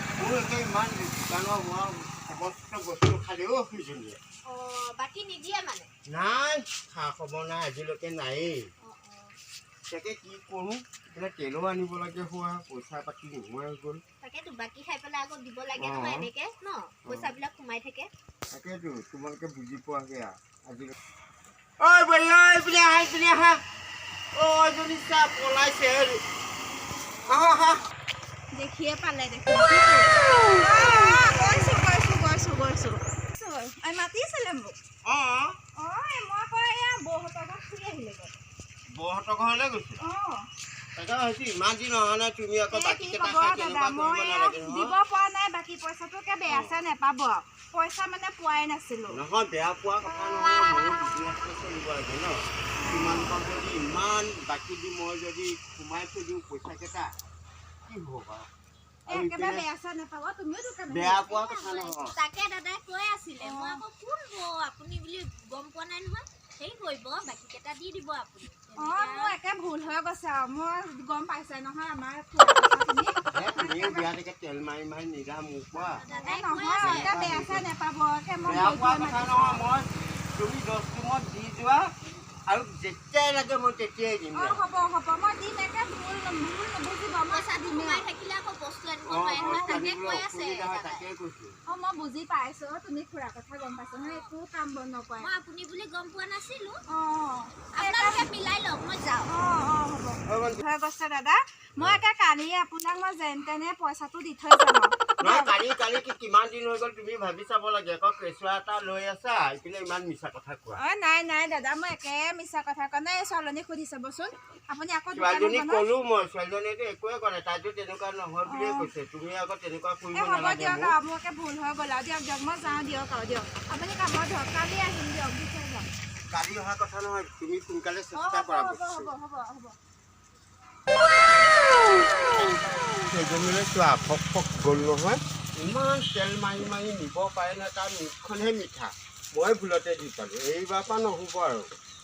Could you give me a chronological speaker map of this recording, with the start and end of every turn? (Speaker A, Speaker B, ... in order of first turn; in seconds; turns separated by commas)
Speaker A: 0.2-4.2, Speaker B: 4.5-5.9, Speaker A: 6.1-8.7, Speaker B: 8.8-9.3, Speaker A: 9.9-14.0, Speaker B: 14.2-18.1, Speaker A: 15.8-16.3, Speaker A: 17.1-17.3, Speaker A: 18.5-20.9, Speaker A: 21.8-23.6, Speaker A: 24.3-26.2, Speaker A: 27.2-27.8, Speaker C: 28.5-34.8, Speaker A: 35.0-35.6, Speaker C: 35.8-38.3, Speaker A: 38.9-40.0, Speaker C: 40.0-40.5, Speaker A: 41.0-45.0, Speaker C: 42.7-49.2, Speaker A: 46.5-46.8, Speaker A: 49.1-57.1, Speaker C: 52.8-53.4, Speaker A: 57.8-58.5, Speaker C: 59.1-61.2, Speaker A: 59.1-59.7, Speaker A: 60.9-62.1, Speaker B: 61.2-69.4, Speaker C: 63.4-63.8, Speaker C: 68.8-74.1, Speaker A: 73.3-76.0, Speaker B: 75.8-77.1, Speaker C: 76.1-79.6, Speaker A: 76.8-77.6, Speaker A: 78.4-81.9, Speaker A: 82.5-84.6, Speaker C: 84.3-88.0, Speaker B: 87.3-91.0, Speaker A: 89.0-91.6, Speaker C: 91.7-95.3, Speaker B: 93.8-94.3, Speaker B: 95.2-96.8, Speaker C: 96.9-98.3, Speaker B: 97.7-99.3, Speaker C: 99.2-105.5, Speaker A: 100.2-100.6, Speaker A: 101.8-102.0, Speaker A: 105.2-110.8, Speaker C: 110.8-115.9, Speaker A: 115.1-121.0, Speaker C: 118.4-118.9, Speaker C: 120.1-125.9, Speaker A: 126.3-129.1, Speaker C: 128.1-129.7, Speaker B: 132.4-132.6, Speaker A: 133.1-141.7